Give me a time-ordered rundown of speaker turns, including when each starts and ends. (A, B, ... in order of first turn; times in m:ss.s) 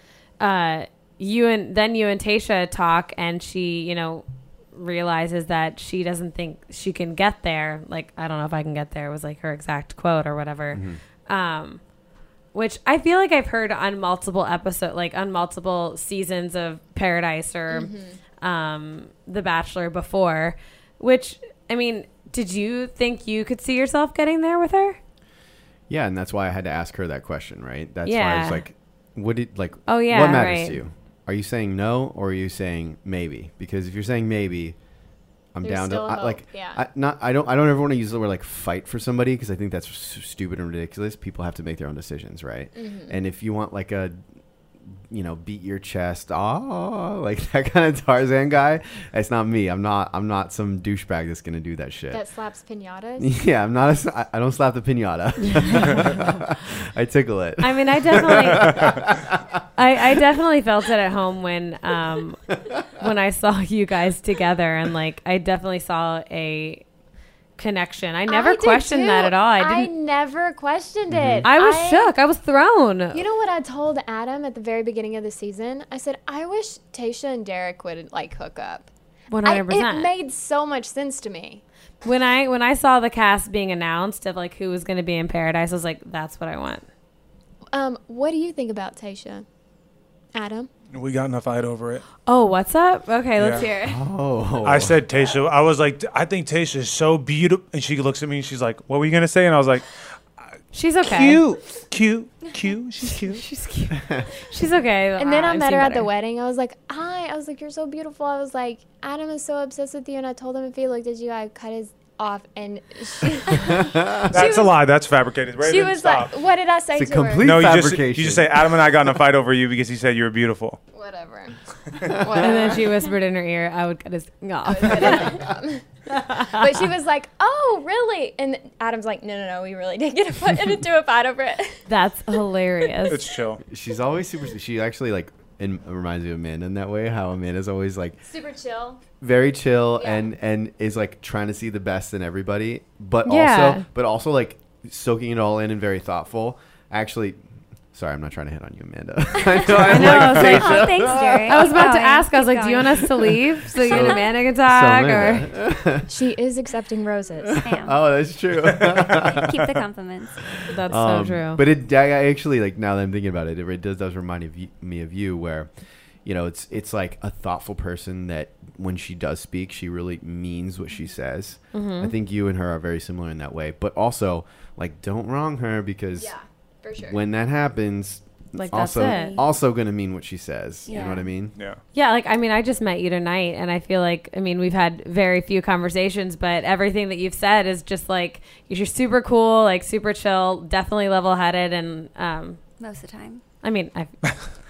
0:00.4-0:11.8 A
0:10.7-0:11.0 B
0:12.5-0:25.0 A
0:17.7-0:18.2 C
0:25.9-0:34.8 B
0:28.1-0:28.6 A
0:29.9-0:30.8 A
0:35.5-0:44.2 B
0:35.6-0:36.8 C
0:42.8-0:43.2 C
0:45.1-0:52.2 B
0:52.1-0:53.3 C
0:53.2-0:59.6 B
0:55.4-0:56.2 A
0:57.6-0:59.0 A
0:59.8-1:06.8 A
1:07.6-1:09.9 A
1:08.3-1:12.1 C
1:11.1-1:11.5 B
1:11.4-1:13.2 A
1:13.1-1:18.9 C
1:19.3-1:20.1 A
1:19.4-1:21.6 C
1:22.0-1:26.9 A
1:27.7-1:29.5 C
1:30.3-1:30.7 C
1:30.9-1:32.0 D
1:32.3-1:34.0 A
1:33.4-1:33.6 D
1:33.8-1:35.0 B
1:34.6-1:39.9 D
1:40.7-1:41.4 A
1:41.0-1:43.4 D
1:43.1-1:46.1 A
1:43.9-1:44.3 B
1:45.2-1:54.8 C
1:53.5-1:54.3 B
1:54.3-1:56.3 D
1:55.6-1:57.5 C
1:56.9-1:58.9 B
1:57.4-2:00.8 D
2:00.9-2:03.1 C
2:02.4-2:05.5 A
2:04.6-2:11.8 C
2:06.3-2:06.6 A
2:11.9-2:13.2 A
2:13.1-2:13.6 D
2:13.7-2:18.2 B
2:18.3-2:19.0 C
2:19.2-2:27.4 B
2:20.0-2:20.2 C
2:23.3-2:23.9 A
2:27.9-2:31.7 B
2:29.8-2:30.9 A
2:29.8-2:33.3 E
2:31.5-2:35.5 A
2:33.8-2:36.1 B
2:36.1-2:37.6 C
2:37.5-2:39.5 B
2:37.6-2:38.0 E
2:39.1-2:40.4 E
2:40.7-2:41.6 A
2:40.9-2:45.7 B
2:46.2-2:56.3 B
2:51.7-2:52.1 A
2:56.2-2:57.2 C
2:57.0-3:01.5 B
2:58.6-2:59.4 A
2:58.9-2:59.4 E
3:00.9-3:01.2 E
3:00.9-3:01.2 C
3:01.9-3:12.6 A
3:12.8-3:13.4 E
3:13.6-3:14.2 A